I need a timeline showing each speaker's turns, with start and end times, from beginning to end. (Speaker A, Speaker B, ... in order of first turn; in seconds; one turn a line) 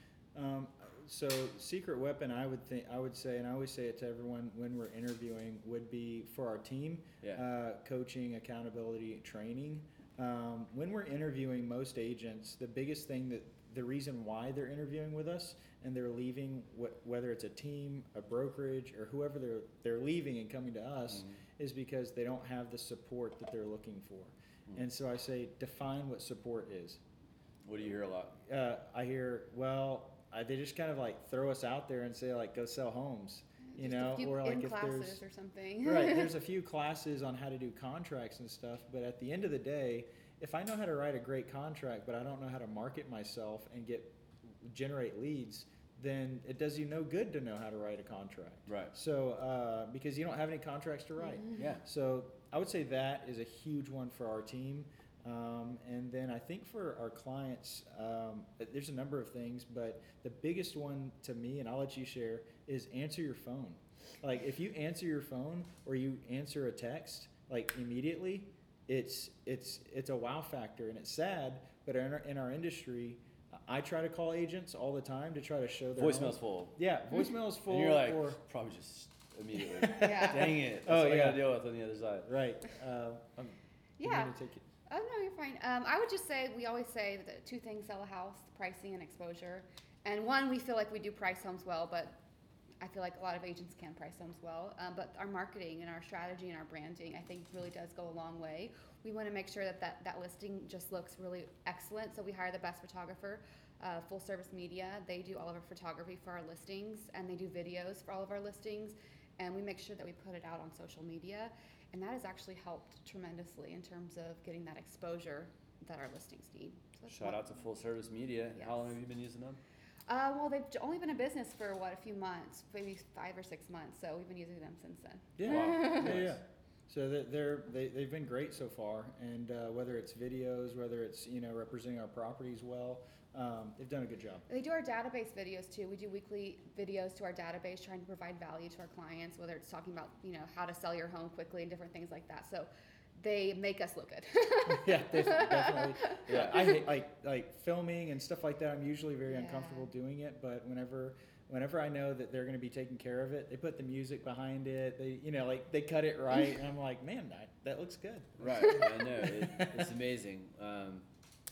Speaker A: 0.3-27.0
Speaker B: 21.1-21.4
Speaker B: 27.6-28.4
Speaker A: 28.4-35.2
Speaker C: 33.6-36.3
Speaker A: 35.8-78.4
Speaker B: 48.7-48.9
Speaker C: 51.3-51.6
Speaker B: 51.5-51.8
Speaker B: 76.0-76.8
Speaker B: 77.7-82.3
Speaker A: 79.7-81.5
Speaker C: 79.9-80.5
Speaker A: 82.2-84.6
Speaker C: 84.0-84.3
Speaker C: 84.9-92.2
Speaker C: 92.8-117.4
Speaker B: 117.1-119.6
Speaker C: 120.1-126.2
Speaker A: 125.4-134.4
Speaker B: 125.4-126.4
Speaker C: 134.5-146.8
Speaker A: 144.7-159.9
Speaker B: 146.3-146.8
Speaker C: 149.3-149.9
Speaker B: 158.4-161.1